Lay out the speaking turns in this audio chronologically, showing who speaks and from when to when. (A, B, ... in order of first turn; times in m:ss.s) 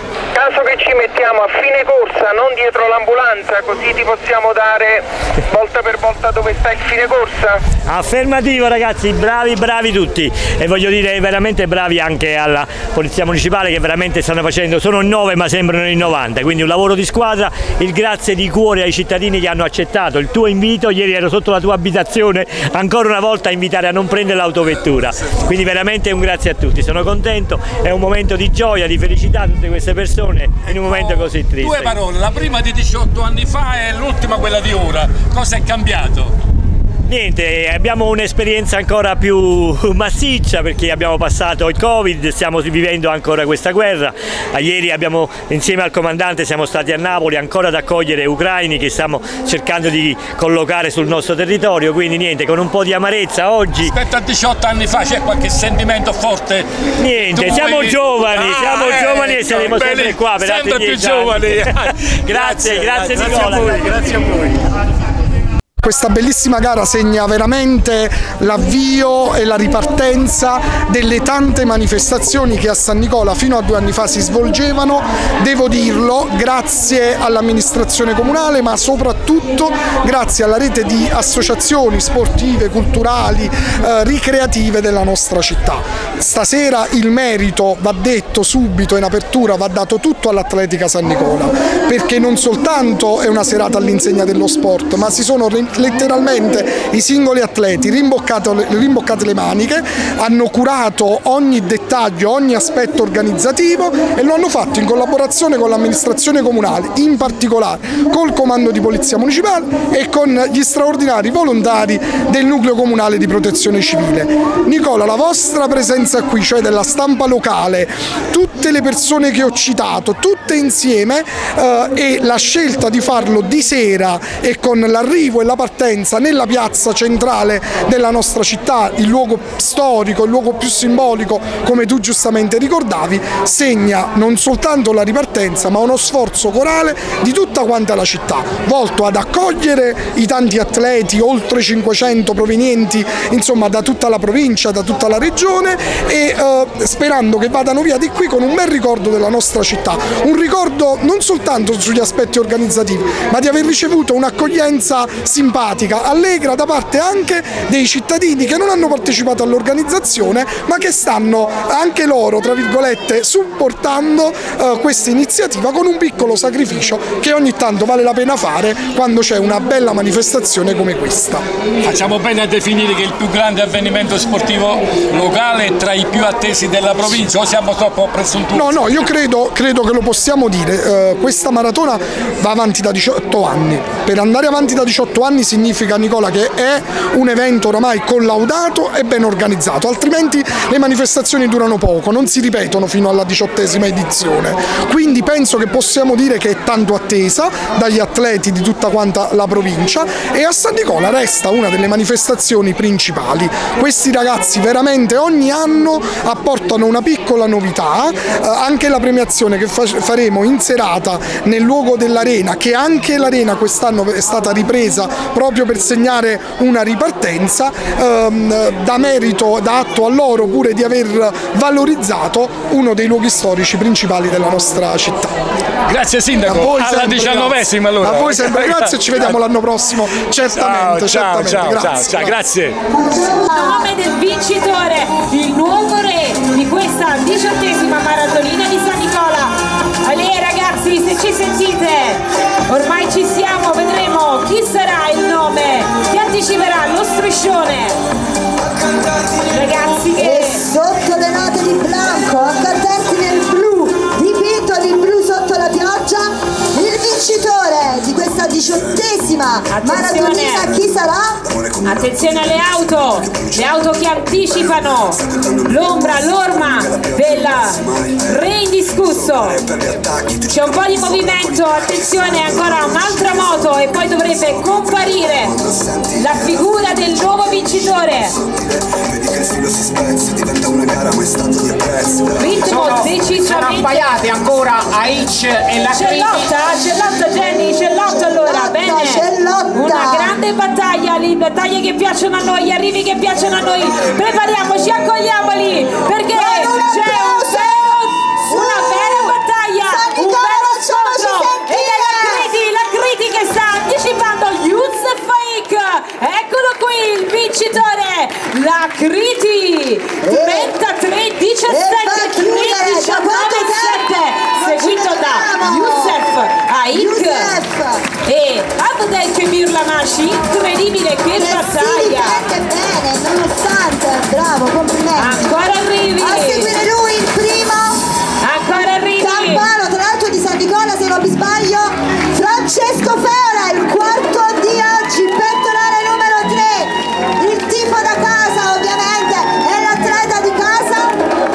0:00.4-0:07.6 A
0:07.9-0:31.9 B
0:30.6-0:36.3 C
0:37.1-0:53.9 B
0:53.9-1:04.6 C
0:57.0-1:04.0 B
1:05.8-2:51.5 D
2:51.8-2:59.0 C
2:58.5-3:45.4 D
3:45.9-3:49.4 C
3:46.4-3:52.4 D
3:50.5-3:52.8 C
3:52.9-3:53.9 E
3:53.5-4:08.0 F
4:09.5-4:10.6 F
4:10.2-4:21.6 E
4:19.7-4:20.7 F
4:21.8-4:29.7 F
4:30.3-4:38.4 F
4:42.4-4:44.0 F
4:42.6-4:46.5 G
4:45.9-5:17.5 F
4:47.7-4:50.4 E
4:56.3-5:02.5 E
5:10.2-5:10.7 E
5:11.7-5:16.3 E
5:16.9-5:18.1 E
5:18.2-5:22.4 F
5:21.3-5:25.5 E
5:25.2-5:26.7 F
5:26.2-5:28.0 E
5:28.4-5:29.6 F
5:28.7-5:41.2 E